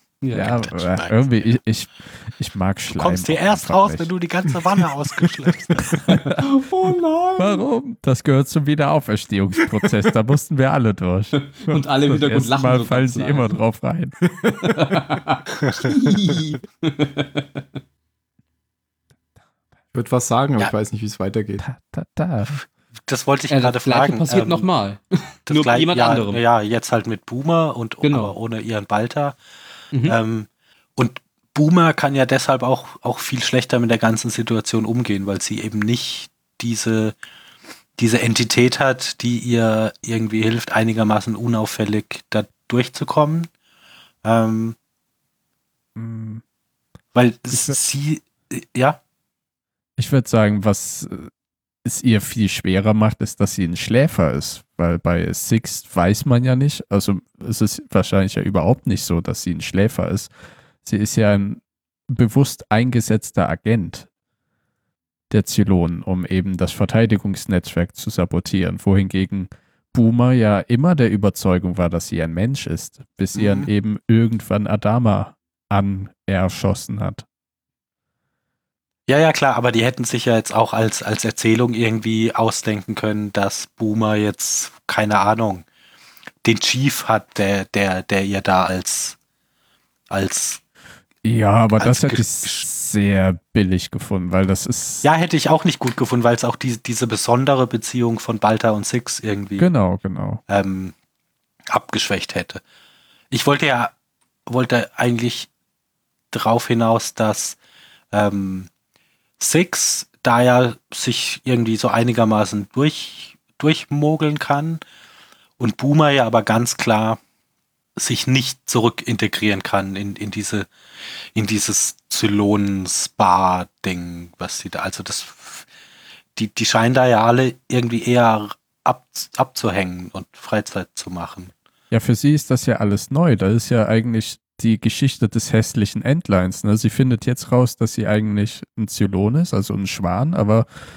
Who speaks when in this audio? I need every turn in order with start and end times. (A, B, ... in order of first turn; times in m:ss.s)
0:00.2-0:00.7 A
0:00.3-0:04.1 B
0:00.3-0:01.3 C
0:02.9-0:06.0 C
0:06.1-0:06.4 B
0:06.4-0:07.6 A
0:07.4-0:11.4 B
0:11.3-0:13.6 A
0:12.1-0:14.2 B
0:14.4-0:14.7 D
0:14.6-0:17.6 A
0:19.9-0:21.6 D
0:21.6-0:22.6 B
0:23.1-0:24.7 C
0:23.5-0:26.4 A
0:25.5-0:29.4 C
0:28.0-0:28.3 A
0:30.0-0:37.1 C
0:38.0-0:43.5 C
0:44.2-0:44.8 C
0:46.0-0:46.4 B
0:47.1-0:49.0 C
0:47.5-0:47.8 B
0:50.0-0:51.3 B
0:51.8-1:00.3 B
1:00.8-1:04.1 B
1:05.3-1:17.2 B
1:13.3-1:13.7 C
1:19.1-1:25.6 C
1:26.4-1:29.2 C
1:30.1-1:30.6 C
1:31.2-1:35.0 B
1:31.8-1:32.6 C
1:35.0-1:39.7 C
1:39.6-1:40.4 B
1:40.5-1:40.9 C
1:41.7-1:42.6 C
1:43.3-1:43.9 C
1:44.5-1:45.5 C
1:46.3-1:47.6 C
1:48.1-1:48.7 C
1:49.4-1:54.8 C
1:55.6-1:57.2 C
1:58.0-2:00.7 C
2:01.3-2:05.6 C
2:06.4-2:11.5 C
2:11.9-2:20.7 B